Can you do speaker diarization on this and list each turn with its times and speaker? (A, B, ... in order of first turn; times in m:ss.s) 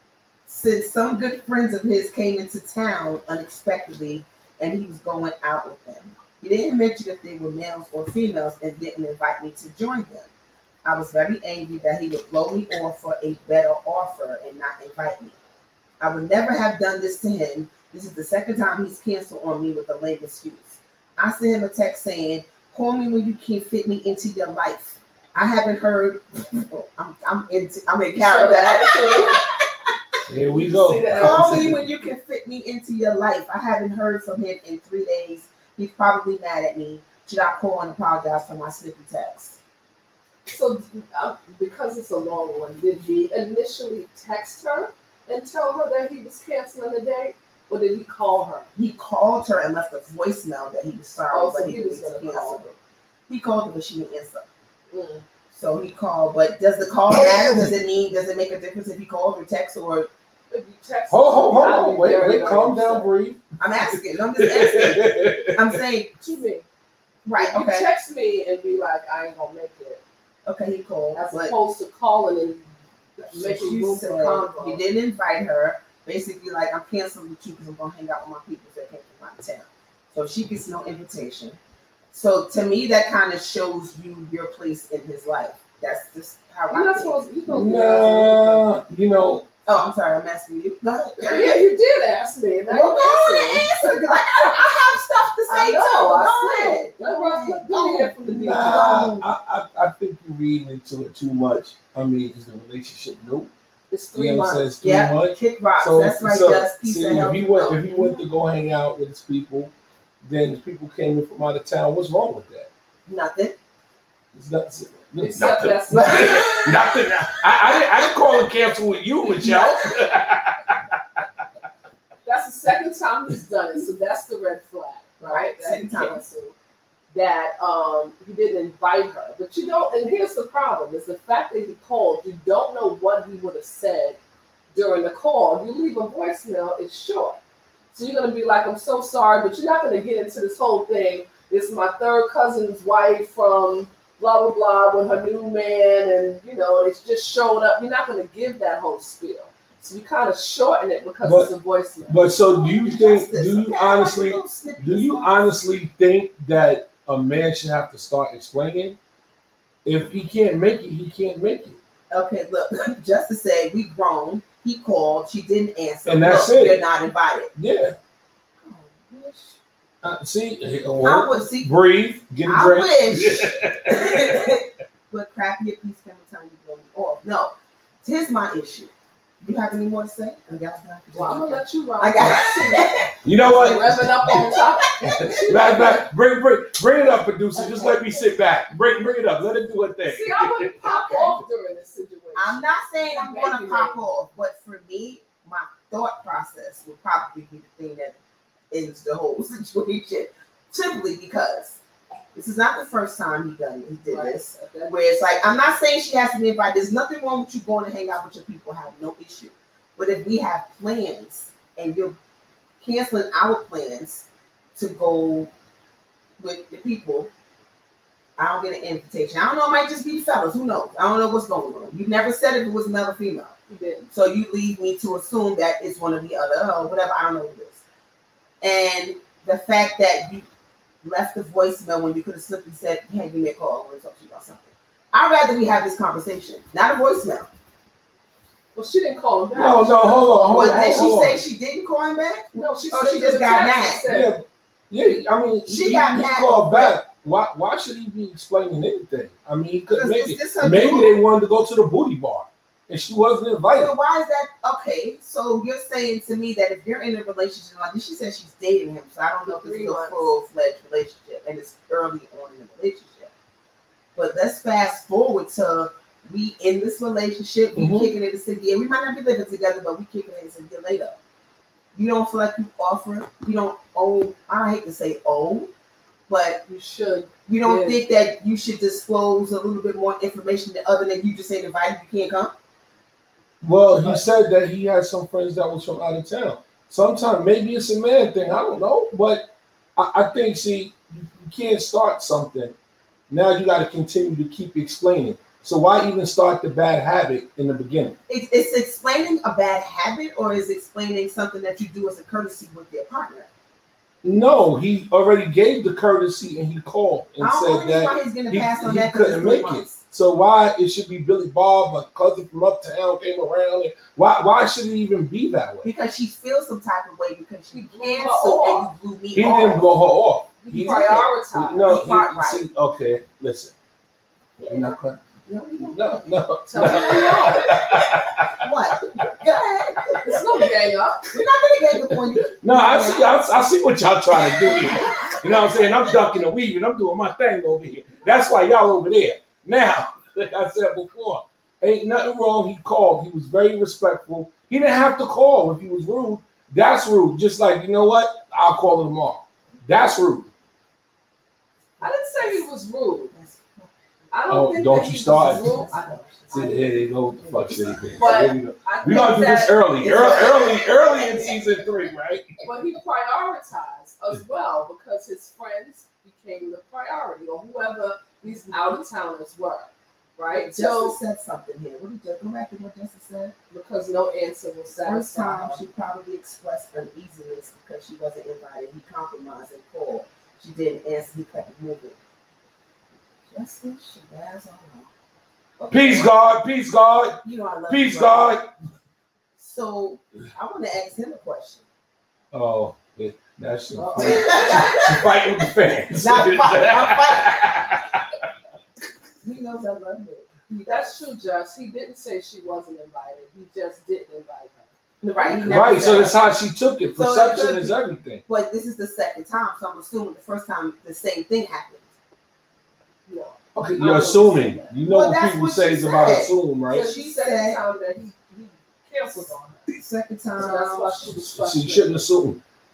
0:00.4-0:10.3 A
0:10.8-0:15.4 A
0:16.0-0:29.5 A
0:28.1-0:29.4 B
0:30.3-0:31.8 C
0:30.5-0:31.7 B
0:31.2-0:39.6 A
0:40.5-0:48.7 B
0:48.8-0:52.8 A
0:51.3-0:52.6 B
0:53.3-0:54.4 A
0:54.9-0:55.2 B
0:55.5-1:00.1 A
0:57.2-0:57.6 C
1:00.5-1:03.1 B
1:01.1-1:05.8 C
1:03.6-1:06.2 A
1:06.2-1:06.6 B
1:07.2-1:07.9 A
1:07.4-1:10.0 B
1:10.4-1:11.5 A
1:11.1-1:12.6 B
1:13.2-1:14.8 B
1:13.2-1:21.6 A
1:22.1-1:27.2 A
1:26.7-1:28.8 B
1:27.5-1:29.5 C
1:29.6-1:31.6 A
1:31.2-1:34.6 B
1:32.7-1:39.2 A
1:35.5-1:39.2 B
1:38.3-1:43.5 C
1:43.9-1:44.7 B
1:44.1-1:49.7 C
1:44.8-1:48.2 A
1:50.2-1:52.7 C
1:53.0-1:53.6 A
1:54.3-2:00.8 C
1:55.2-1:56.6 B
1:55.9-1:56.8 A
1:59.4-1:59.8 A
2:02.2-2:06.5 B
2:05.2-2:06.2 A
2:07.1-2:14.2 B
2:14.7-2:17.4 B
2:17.9-2:32.2 B
2:31.2-2:31.5 C
2:32.1-2:39.0 C
2:32.5-2:35.3 A
2:39.8-2:41.8 C
2:42.1-2:47.5 A
2:46.0-2:46.8 C
2:47.6-2:47.9 C
2:48.6-2:49.6 A
2:50.0-2:54.6 C
2:51.0-2:51.7 A
2:52.4-3:03.2 A
3:01.1-3:02.9 B
3:03.2-3:11.4 C
3:03.5-3:06.0 B
3:04.3-3:05.4 A
3:10.1-3:14.0 B
3:12.4-3:18.2 A
3:18.7-3:21.8 A
3:22.3-3:32.2 A
3:24.1-3:25.0 B
3:32.8-3:35.5 A
3:36.4-3:37.3 A
3:38.4-3:43.5 A
3:43.7-3:44.1 B
3:44.1-3:47.8 A
3:48.6-3:50.4 A
3:51.0-3:57.5 A
3:58.7-4:01.1 B
3:59.5-4:01.4 C
4:00.5-4:04.1 A
4:02.5-4:04.3 B
4:04.1-4:13.9 C
4:05.6-4:07.0 A
4:09.9-4:11.2 A
4:13.7-4:23.3 A
4:19.4-4:20.3 B
4:24.1-4:31.2 A
4:27.7-4:28.1 C
4:31.9-4:35.7 A
4:36.3-4:36.6 A
4:36.7-4:38.0 B
4:37.5-4:42.5 A
4:43.6-4:52.7 C
4:53.3-4:58.2 C
4:58.3-5:03.5 A
5:04.2-5:15.9 C
5:07.4-5:10.0 A
5:15.8-5:19.9 A
5:17.7-5:18.9 B
5:19.3-5:23.7 C
5:20.6-5:21.9 B
5:21.8-5:22.6 A
5:24.6-5:27.2 A
5:24.7-5:25.2 C
5:25.8-5:29.2 C
5:26.7-5:27.9 B
5:28.6-5:30.4 A
5:30.2-5:31.4 B
5:31.3-5:33.6 A
5:32.1-5:50.5 C
5:34.3-5:36.2 A
5:52.0-5:52.7 A
5:52.0-5:53.3 B
5:53.3-5:58.4 A
5:54.3-5:56.2 B
5:54.5-5:55.7 C
5:56.5-6:02.6 C
5:58.2-6:00.4 B
6:00.1-6:01.5 A
6:02.6-6:11.2 B
6:10.5-6:13.5 A
6:13.7-6:15.8 B
6:15.0-6:22.2 A
6:23.5-6:25.1 A
6:25.8-6:26.3 A
6:25.9-6:28.7 C
6:27.4-6:28.6 A
6:29.6-6:31.8 A
6:32.5-6:38.2 C
6:34.0-6:35.0 B
6:34.2-6:35.5 A
6:36.2-6:37.6 A
6:39.4-6:41.1 A
6:40.8-6:46.3 B
6:45.2-6:46.4 A
6:45.6-6:48.4 C
6:47.2-6:48.0 A
6:48.5-6:52.1 A
6:53.3-6:55.0 B
6:53.7-6:57.1 C
6:55.0-6:57.8 A
6:56.9-6:59.9 B
7:00.0-7:01.3 A
7:00.6-7:02.2 B
7:01.3-7:02.6 C